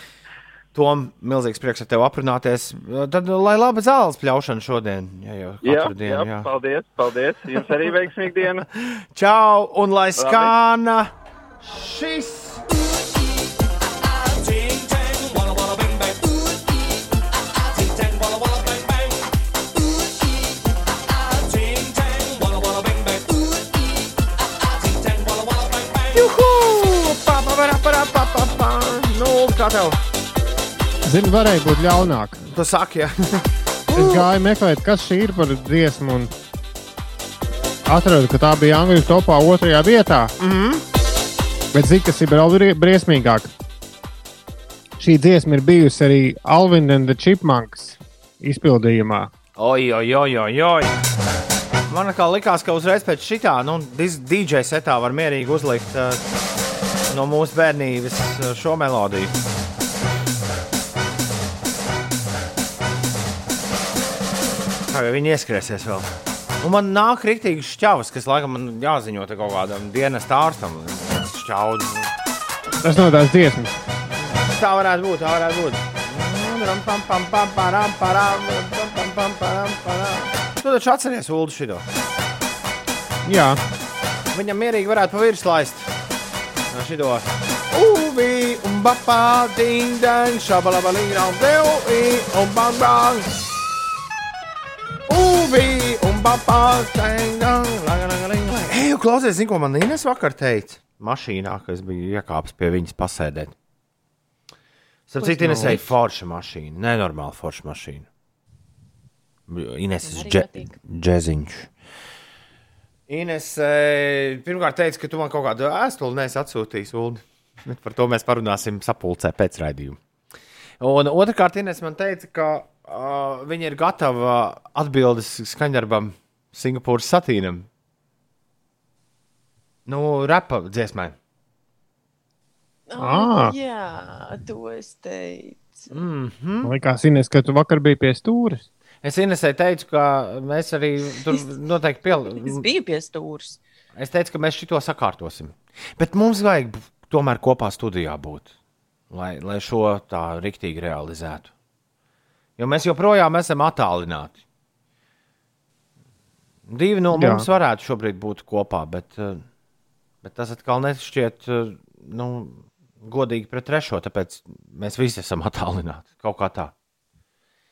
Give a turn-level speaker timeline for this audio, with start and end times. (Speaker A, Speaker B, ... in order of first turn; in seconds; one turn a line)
Speaker A: 0.7-6.5
Speaker B: 5.6-8.7
Speaker A: 7.6-7.9
Speaker A: 8.6-12.7
Speaker B: 10.2-10.5
Speaker A: 26.1-30.0
Speaker C: 31.1-32.5
Speaker A: 32.5-34.2
Speaker C: 33.9-36.3
Speaker C: 37.9-40.3
Speaker A: 40.4-40.8
Speaker C: 41.7-43.5
Speaker C: 45.0-49.3
Speaker A: 49.6-51.0
Speaker A: 51.9-56.2
Speaker A: 57.1-59.4
Speaker A: 64.9-72.1
Speaker C: 72.8-73.8
Speaker A: 74.5-81.8
Speaker C: 83.2-83.6
Speaker A: 84.3-85.9
Speaker A: 86.7-93.5
Speaker A: 95.1-103.5
Speaker A: 105.1-108.1
Speaker D: 105.4-105.7
Speaker C: 105.4-105.8
Speaker A: 109.5-111.7
Speaker D: 110.0-110.8
Speaker A: 113.1-120.0
Speaker A: 120.8-127.7
Speaker A: 129.9-131.2
Speaker D: 132.9-135.9
Speaker C: 133.0-133.5
Speaker A: 135.9-136.7
Speaker C: 136.6-138.7
Speaker A: 139.0-142.7
Speaker D: 142.2-143.6
Speaker A: 143.9-148.5
Speaker A: 149.1-151.5
Speaker A: 152.6-154.4
Speaker A: 156.7-159.4
Speaker C: 157.1-157.5
Speaker A: 160.2-166.7